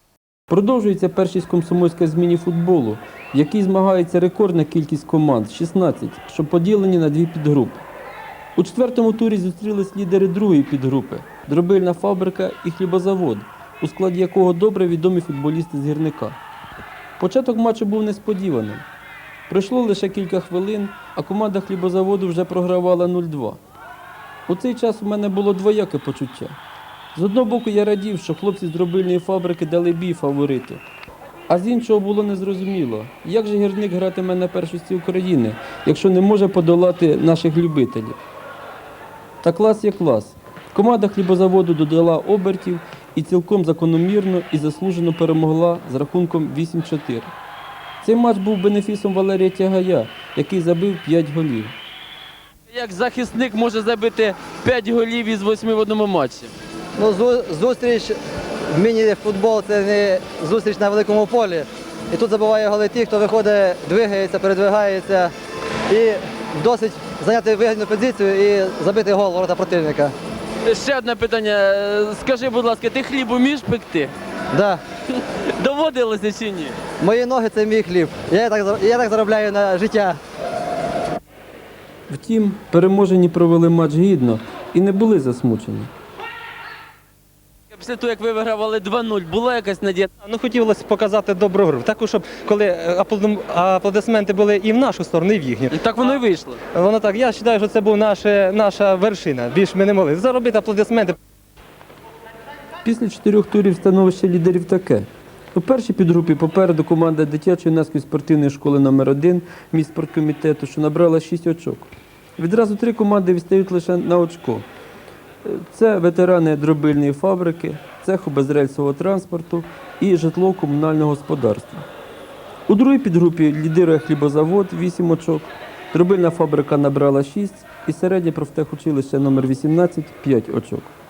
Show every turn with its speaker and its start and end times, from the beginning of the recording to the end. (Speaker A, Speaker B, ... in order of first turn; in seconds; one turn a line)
Speaker A: 0.5-7.8
Speaker A: 8.6-16.4
Speaker A: 17.2-18.8
Speaker A: 19.5-23.6
Speaker A: 24.5-26.5
Speaker A: 27.1-30.8
Speaker A: 31.5-38.2
Speaker A: 39.4-47.3
Speaker A: 48.0-51.7
Speaker B: 52.7-56.5
Speaker C: 57.0-58.2
Speaker C: 58.7-65.3
Speaker C: 65.9-70.1
Speaker B: 70.6-74.1
Speaker C: 74.5-74.8
Speaker B: 75.1-76.8
Speaker C: 77.0-80.2
Speaker A: 82.1-85.9
Speaker B: 87.7-90.1
Speaker D: 90.2-95.8
Speaker B: 95.7-96.6
Speaker D: 96.7-101.2
Speaker A: 102.8-114.7
Speaker A: 115.4-121.8
Speaker A: 122.7-130.9